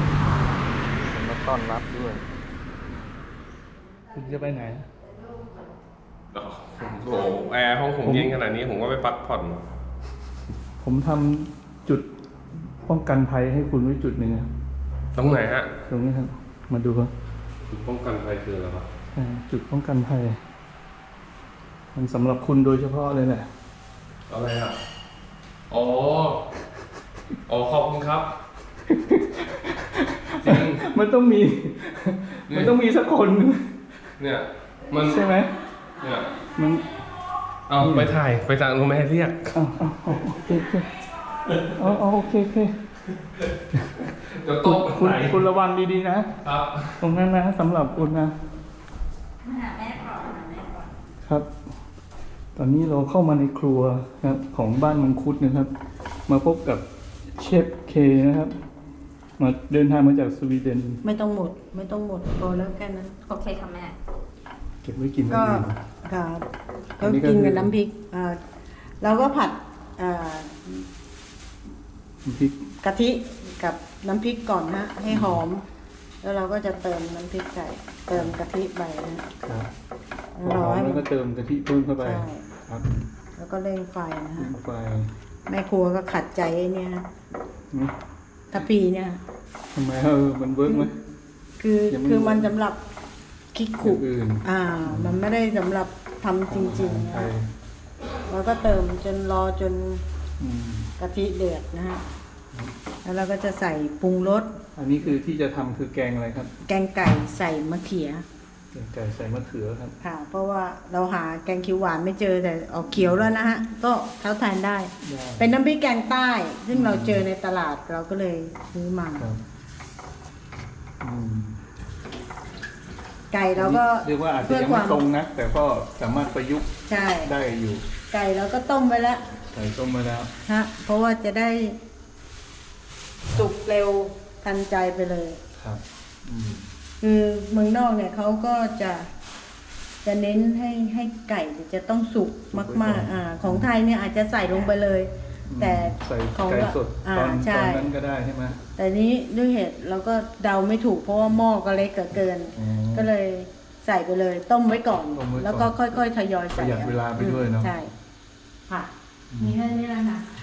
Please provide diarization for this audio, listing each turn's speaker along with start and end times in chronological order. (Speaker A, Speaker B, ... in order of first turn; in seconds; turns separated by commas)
Speaker A: 0.9-2.2, Speaker A: 4.1-4.9, Speaker B: 6.3-9.6, Speaker A: 8.0-8.3, Speaker A: 10.8-12.1, Speaker A: 12.8-14.5, Speaker B: 15.1-15.7, Speaker A: 15.9-17.1, Speaker B: 17.7-18.9, Speaker A: 19.1-20.4, Speaker A: 21.9-23.5, Speaker B: 24.3-24.8, Speaker B: 25.7-26.5, Speaker B: 27.5-28.3, Speaker A: 28.9-33.8, Speaker B: 30.4-30.8, Speaker B: 34.2-35.3, Speaker A: 35.0-35.5, Speaker B: 36.0-36.4, Speaker A: 36.5-36.9, Speaker B: 37.7-39.5, Speaker A: 37.8-38.1, Speaker A: 39.5-40.9, Speaker A: 41.7-42.9, Speaker B: 44.3-45.4, Speaker A: 44.6-46.3, Speaker B: 46.4-47.0, Speaker A: 47.0-48.4, Speaker C: 49.4-50.9, Speaker A: 51.2-51.5, Speaker A: 52.5-55.7, Speaker A: 56.3-58.6, Speaker A: 59.4-61.0, Speaker D: 61.0-63.1, Speaker C: 63.3-64.0, Speaker A: 64.8-65.8, Speaker D: 65.3-66.5, Speaker A: 67.0-67.7, Speaker D: 67.0-68.4, Speaker D: 69.0-70.9, Speaker A: 72.2-72.7, Speaker D: 72.8-75.7, Speaker A: 75.1-75.4, Speaker D: 76.2-79.2, Speaker A: 79.4-79.7, Speaker D: 80.3-81.0, Speaker A: 80.4-82.8, Speaker D: 82.0-82.4, Speaker D: 83.3-84.5, Speaker A: 84.4-85.1, Speaker D: 85.5-87.1, Speaker D: 88.5-89.2, Speaker A: 89.7-91.0, Speaker D: 91.6-92.8, Speaker A: 91.9-92.5, Speaker D: 93.5-97.3, Speaker A: 93.8-95.2, Speaker A: 96.5-97.5, Speaker D: 98.3-100.0, Speaker A: 100.4-100.9, Speaker D: 101.0-102.0, Speaker D: 103.0-104.6, Speaker A: 104.8-106.5, Speaker D: 106.7-108.2, Speaker A: 108.7-109.9, Speaker D: 110.0-119.3, Speaker A: 113.0-113.2, Speaker A: 115.0-115.5, Speaker A: 116.7-117.2, Speaker A: 121.0-121.6, Speaker D: 123.3-125.0, Speaker A: 123.5-127.8, Speaker D: 126.9-127.3, Speaker D: 128.1-129.2, Speaker A: 129.5-130.3, Speaker D: 130.4-131.8, Speaker D: 133.3-135.4, Speaker A: 135.6-136.6, Speaker D: 137.0-139.1, Speaker D: 140.0-147.9, Speaker A: 142.5-143.7, Speaker A: 145.5-148.6, Speaker D: 148.8-157.9, Speaker A: 152.5-153.1, Speaker A: 155.0-155.9, Speaker A: 156.6-157.7, Speaker D: 158.7-160.2, Speaker A: 159.3-159.6